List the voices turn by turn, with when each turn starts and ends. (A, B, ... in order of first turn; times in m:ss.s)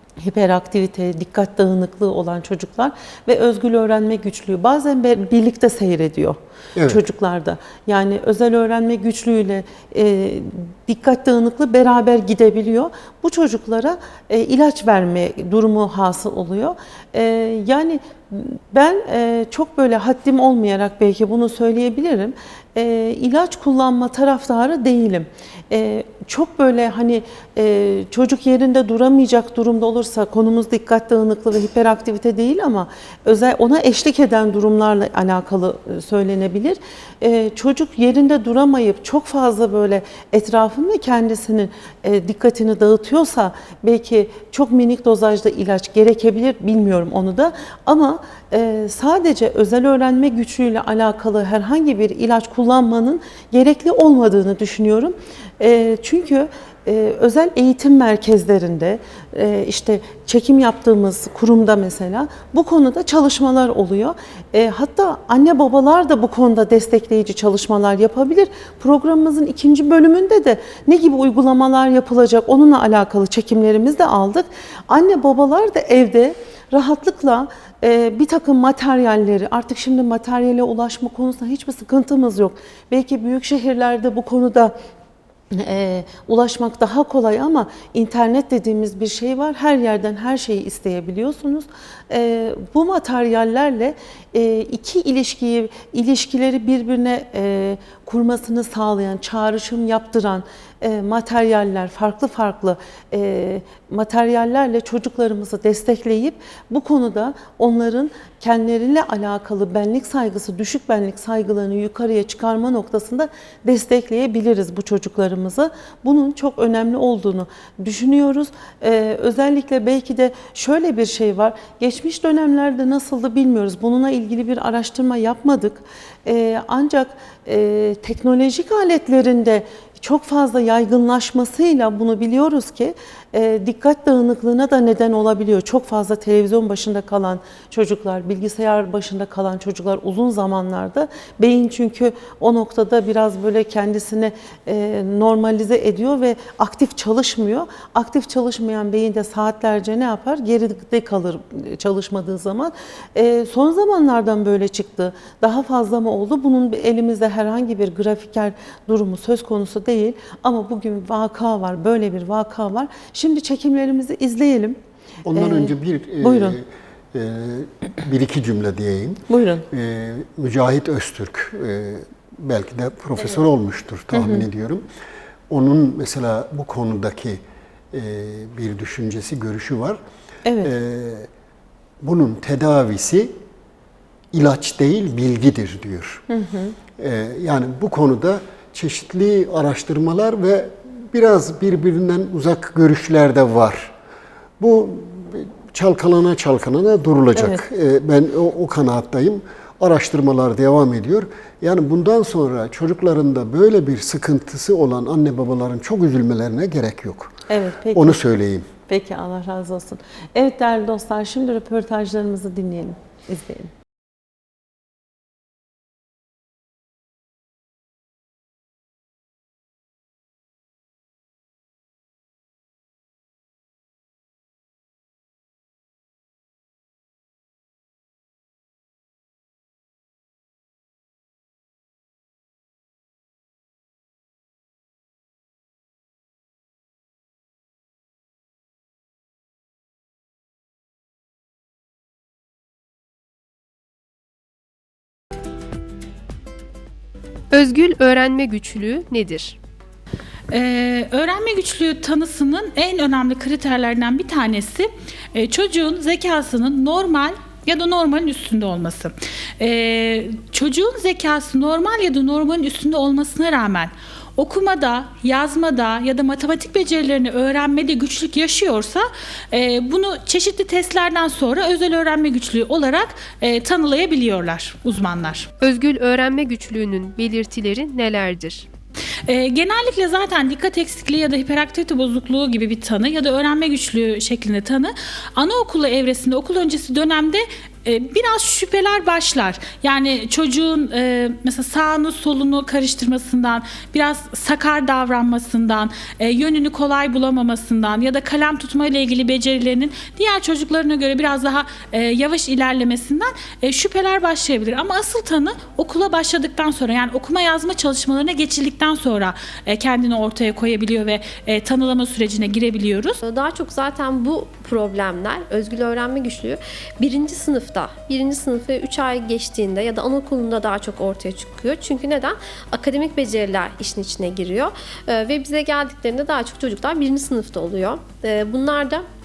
0:00.2-1:24.7 A
1:25.5-2:44.8 A
2:45.2-2:54.8 B
2:45.4-2:46.6 A
2:49.3-2:49.6 A
2:54.1-2:54.4 A
2:55.5-3:00.0 B
3:00.4-3:00.7 A
3:00.6-3:01.3 B
3:02.0-3:03.4 B
3:04.3-3:06.2 B
3:06.3-3:06.8 A
3:07.0-3:13.9 B
3:14.6-3:27.4 B
3:17.4-3:17.6 A
3:27.5-3:28.2 A
3:27.9-3:28.7 B
3:28.9-3:33.7 A
4:07.5-4:09.6 C
4:10.5-4:35.5 D
4:35.6-4:38.7 C
4:39.3-5:13.2 D
5:13.2-5:29.0 E